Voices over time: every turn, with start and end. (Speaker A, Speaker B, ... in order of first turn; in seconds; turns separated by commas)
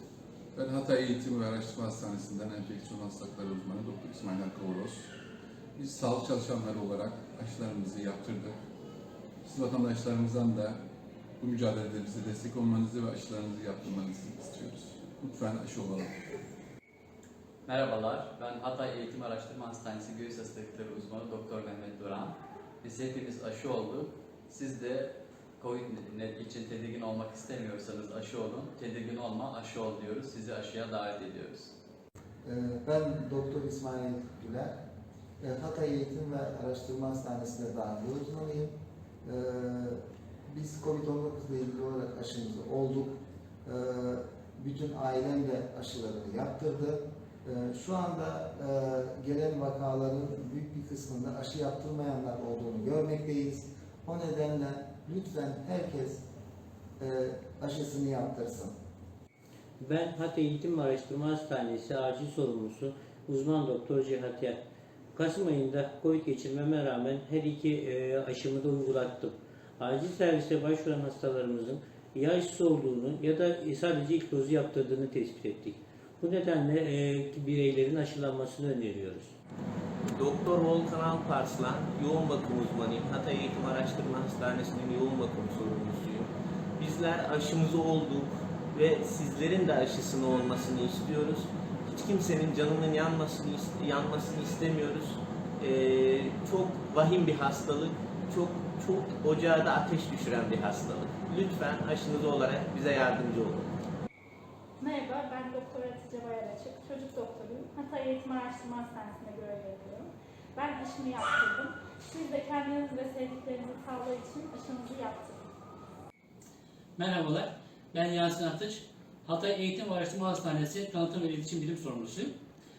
Speaker A: 0.5-5.1, Speaker A: 5.8-8.5, Speaker A: 9.4-10.8, Speaker A: 11.4-16.1, Speaker B: 17.7-31.7, Speaker C: 32.4-34.8, Speaker C: 35.4-38.7, Speaker C: 39.2-56.2, Speaker C: 57.0-58.7, Speaker D: 59.8-79.3, Speaker E: 80.2-86.3, Speaker E: 86.8-103.7, Speaker F: 104.8-115.5, Speaker G: 117.0-122.3